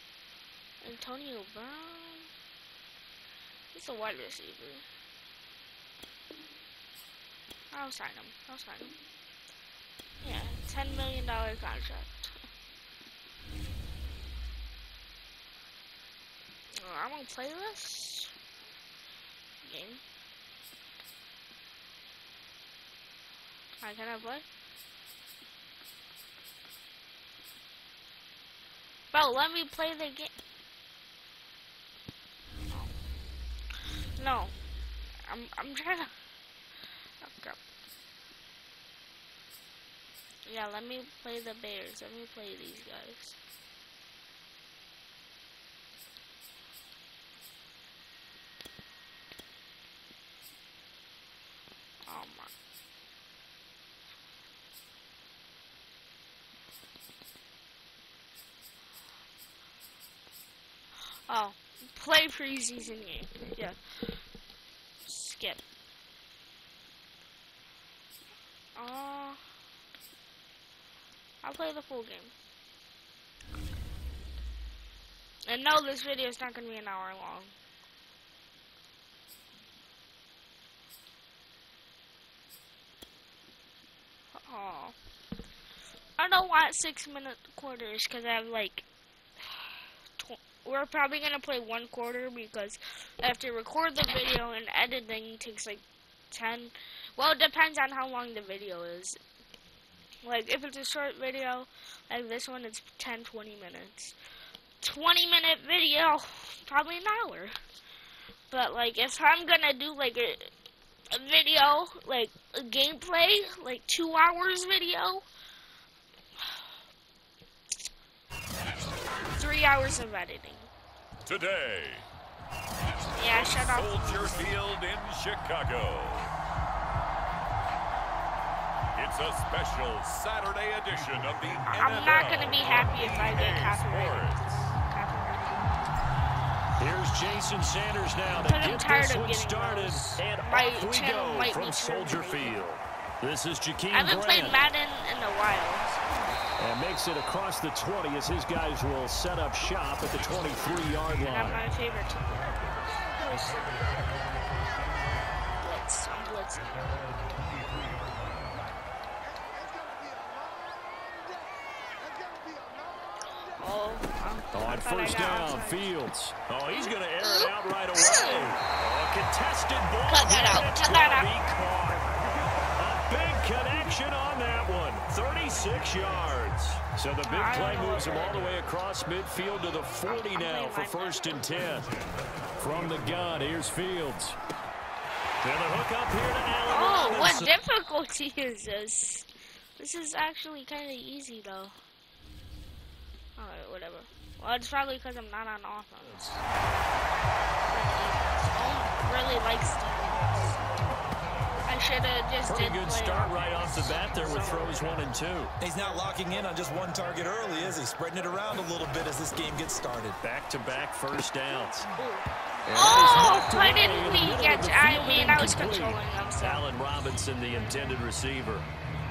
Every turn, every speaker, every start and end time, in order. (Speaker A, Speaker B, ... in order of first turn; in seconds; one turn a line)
Speaker A: 0.8-2.3
Speaker A: 3.7-4.8
Speaker A: 7.7-8.9
Speaker A: 10.2-12.3
Speaker A: 16.8-18.3
Speaker A: 19.6-20.0
Speaker A: 23.8-24.4
Speaker A: 29.1-30.3
Speaker A: 34.2-34.5
Speaker A: 35.3-36.1
Speaker A: 37.2-37.6
Speaker A: 40.5-43.4
Speaker A: 52.1-52.5
Speaker A: 61.3-63.8
Speaker A: 65.0-65.6
Speaker A: 68.8-69.4
Speaker A: 71.4-72.3
Speaker A: 75.5-77.5
Speaker A: 84.4-85.0
Speaker A: 86.2-88.9
Speaker A: 89.5-99.2
Speaker A: 100.2-104.2
Speaker A: 104.8-107.5
Speaker A: 108.5-110.5
Speaker A: 111.1-115.3
Speaker A: 119.4-120.7
Speaker B: 121.3-122.0
Speaker A: 123.1-124.6
Speaker B: 123.3-126.3
Speaker B: 128.9-134.4
Speaker A: 131.7-135.8
Speaker C: 136.8-144.6
Speaker A: 138.4-142.6
Speaker A: 143.9-146.0
Speaker C: 146.6-151.7
Speaker A: 151.2-153.8
Speaker A: 155.6-156.8
Speaker A: 163.5-165.9
Speaker C: 164.5-172.1
Speaker A: 166.8-168.5
Speaker A: 170.1-171.3
Speaker C: 172.8-181.9
Speaker A: 177.2-178.4
Speaker A: 180.1-181.3
Speaker C: 182.6-184.4
Speaker C: 185.4-187.5
Speaker A: 186.7-191.7
Speaker A: 193.4-196.6
Speaker A: 197.7-200.6
Speaker A: 201.7-205.0
Speaker C: 202.4-205.5
Speaker D: 205.6-210.2
Speaker C: 210.2-211.9
Speaker A: 211.9-216.7
Speaker C: 212.7-218.7